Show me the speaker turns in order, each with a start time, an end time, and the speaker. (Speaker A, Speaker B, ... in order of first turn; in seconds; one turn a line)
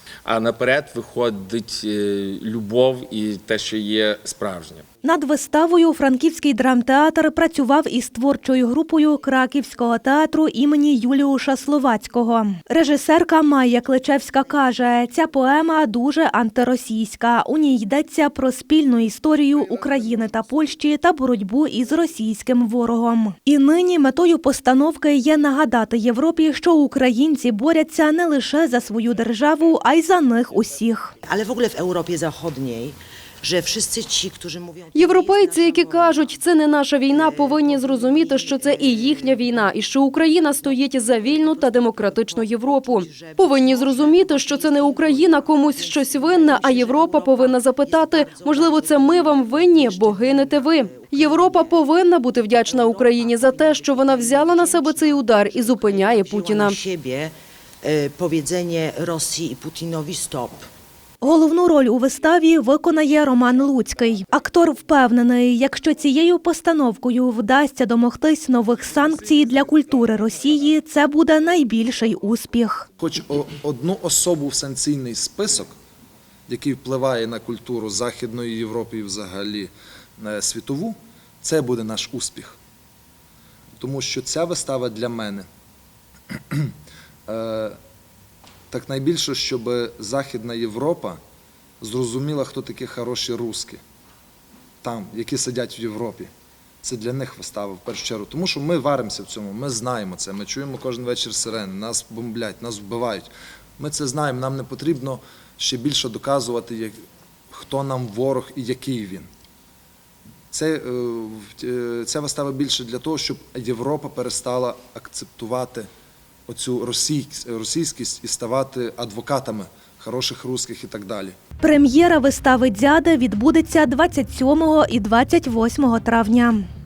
Speaker A: 0.3-4.8
Speaker B: 5.0-31.1
Speaker C: 31.2-36.5
Speaker D: 35.0-56.8
Speaker C: 37.1-39.8
Speaker C: 40.5-60.6
Speaker B: 61.2-72.9
Speaker E: 73.0-75.7
Speaker E: 76.5-82.6
Speaker E: 83.8-85.5
Speaker E: 86.3-86.7
Speaker E: 87.3-87.8
Speaker E: 88.7-91.2
Speaker E: 91.8-93.8
Speaker E: 94.8-96.3
Speaker E: 96.8-107.0
Speaker E: 107.5-109.3
Speaker E: 110.5-115.9
Speaker E: 116.5-121.4
Speaker B: 121.6-126.6